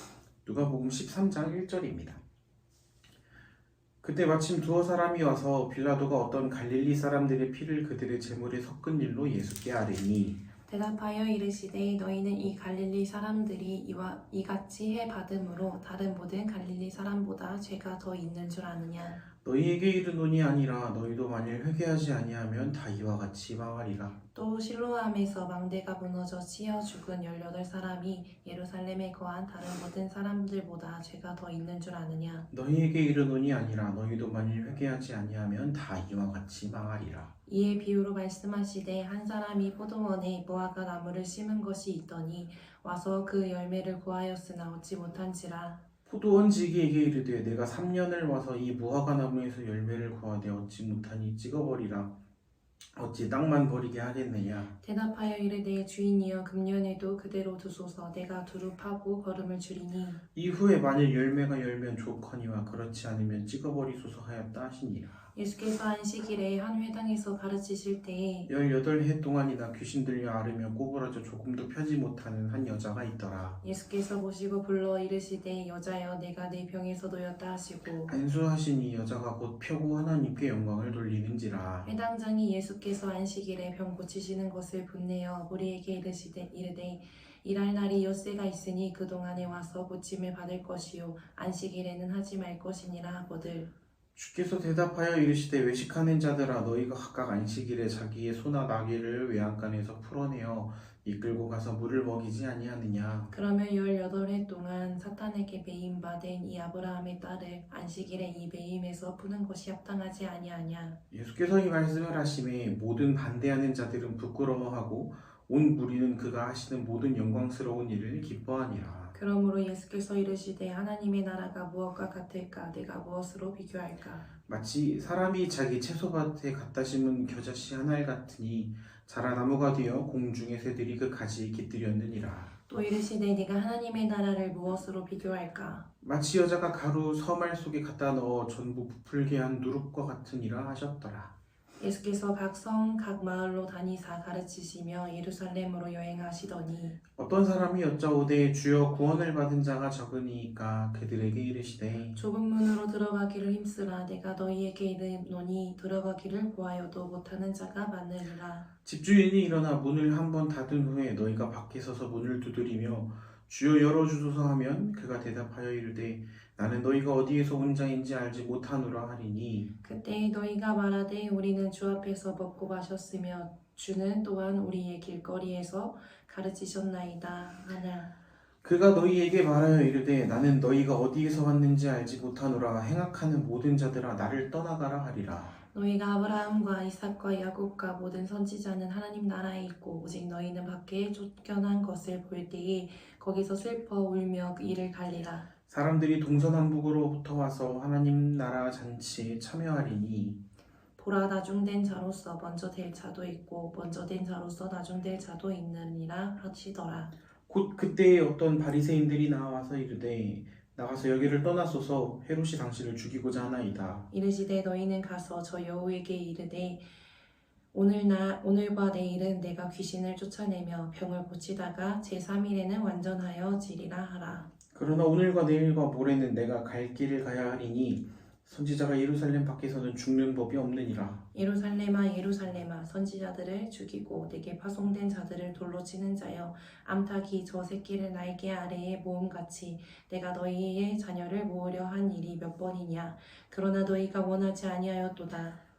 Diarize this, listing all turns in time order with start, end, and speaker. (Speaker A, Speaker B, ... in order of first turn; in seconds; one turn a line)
Speaker A: 0.4-2.2
Speaker A: 4.0-10.4
Speaker B: 10.7-19.2
Speaker A: 19.4-24.2
Speaker B: 24.3-32.5
Speaker A: 32.5-37.3
Speaker B: 37.5-45.8
Speaker A: 46.0-52.2
Speaker A: 52.9-54.7
Speaker B: 54.8-60.2
Speaker A: 60.3-65.1
Speaker B: 65.3-68.5
Speaker A: 68.5-73.6
Speaker B: 73.6-78.2
Speaker A: 78.1-81.9
Speaker B: 81.8-93.7
Speaker A: 94.1-103.3
Speaker B: 103.3-111.0
Speaker A: 111.1-119.2
Speaker B: 119.1-124.3
Speaker A: 124.5-132.5
Speaker B: 132.7-135.8
Speaker A: 136.0-141.3
Speaker B: 141.8-147.0
Speaker A: 147.2-152.2
Speaker B: 152.1-158.7
Speaker A: 158.8-169.7
Speaker B: 169.8-178.1
Speaker A: 178.6-185.5
Speaker B: 185.7-195.5
Speaker A: 195.7-200.4
Speaker B: 201.0-207.1
Speaker A: 207.5-214.1
Speaker B: 214.1-216.9
Speaker B: 217.7-224.5
Speaker A: 224.7-231.2
Speaker B: 231.3-245.6